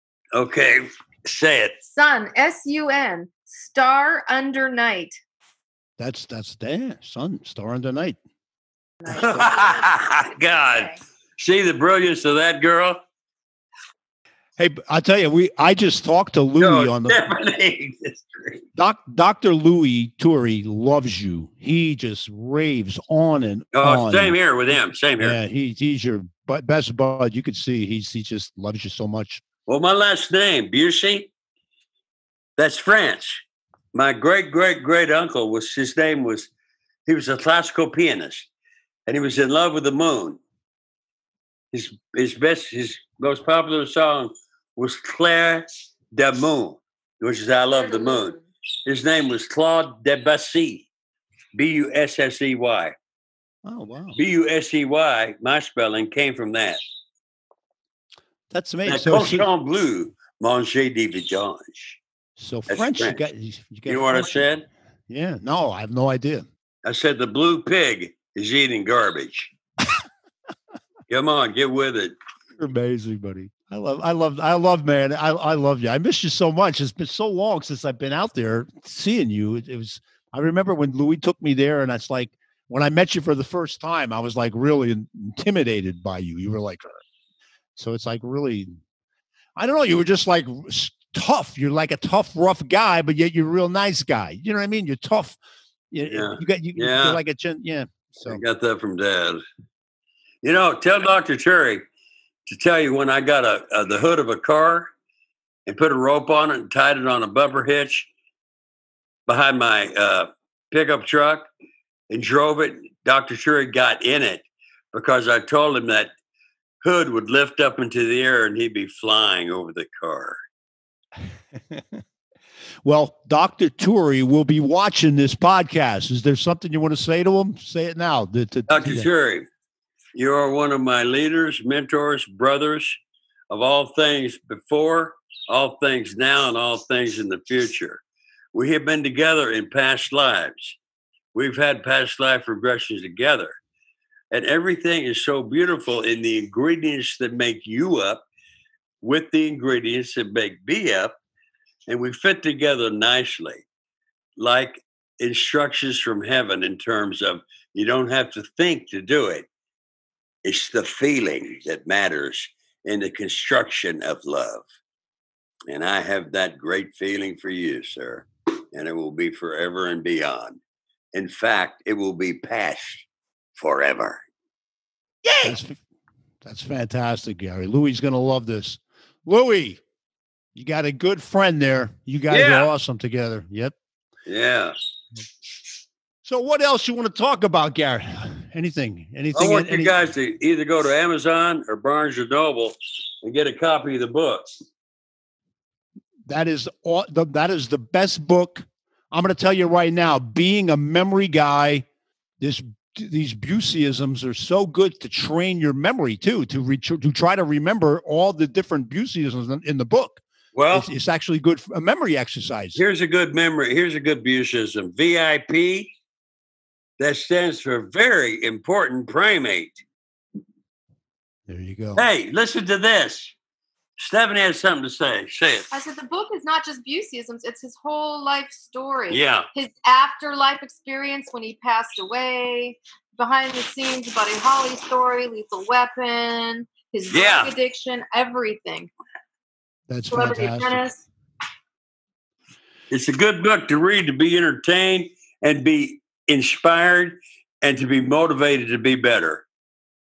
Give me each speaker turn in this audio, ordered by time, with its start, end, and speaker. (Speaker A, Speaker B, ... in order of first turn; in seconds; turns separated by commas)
Speaker A: 0.3-1.8, Speaker B: 1.9-5.2, Speaker C: 6.0-8.2, Speaker B: 9.0-11.0, Speaker A: 9.1-13.0, Speaker C: 14.6-17.2, Speaker A: 16.6-18.6, Speaker C: 18.8-24.4, Speaker A: 23.7-25.4, Speaker C: 25.2-29.4, Speaker A: 29.7-31.3, Speaker A: 32.6-33.4, Speaker A: 33.9-36.5, Speaker A: 37.1-38.5, Speaker A: 39.1-40.4, Speaker A: 41.7-50.9, Speaker B: 47.7-48.4, Speaker A: 51.5-53.0, Speaker C: 53.6-54.2, Speaker A: 54.2-56.8, Speaker C: 58.5-59.5, Speaker A: 58.9-62.0, Speaker C: 62.4-64.5, Speaker A: 62.7-63.2, Speaker A: 63.9-64.7, Speaker C: 65.1-66.5, Speaker A: 66.8-69.5, Speaker A: 71.1-72.2, Speaker C: 72.6-87.0, Speaker C: 87.8-88.8, Speaker C: 89.6-95.4, Speaker C: 95.9-98.4, Speaker A: 96.1-97.2, Speaker A: 98.2-99.4, Speaker A: 100.4-101.8, Speaker A: 102.5-104.9, Speaker A: 105.7-108.1, Speaker A: 109.3-111.5, Speaker A: 112.1-116.1, Speaker A: 116.8-120.4, Speaker C: 121.7-122.0, Speaker C: 122.8-129.1, Speaker A: 128.7-129.5, Speaker A: 130.2-133.0, Speaker A: 133.5-138.0, Speaker A: 138.5-140.8, Speaker A: 141.3-143.5, Speaker A: 144.3-148.2, Speaker A: 149.0-151.2, Speaker A: 151.9-153.6, Speaker A: 154.4-159.5, Speaker A: 160.4-164.7, Speaker A: 165.7-170.6, Speaker A: 171.1-174.2, Speaker C: 175.3-175.8, Speaker C: 176.4-179.8, Speaker C: 180.6-183.8, Speaker A: 182.3-182.7, Speaker A: 184.3-184.7, Speaker C: 186.2-189.9, Speaker A: 189.3-194.5, Speaker C: 196.3-201.9, Speaker C: 202.4-212.8, Speaker A: 210.5-210.9, Speaker A: 212.8-215.9, Speaker A: 217.0-219.8, Speaker C: 221.5-222.1, Speaker A: 222.0-223.3, Speaker A: 224.0-225.7, Speaker B: 225.7-238.9, Speaker A: 229.1-229.5, Speaker A: 237.1-237.6, Speaker C: 239.9-240.8, Speaker B: 240.1-241.0, Speaker A: 242.9-249.4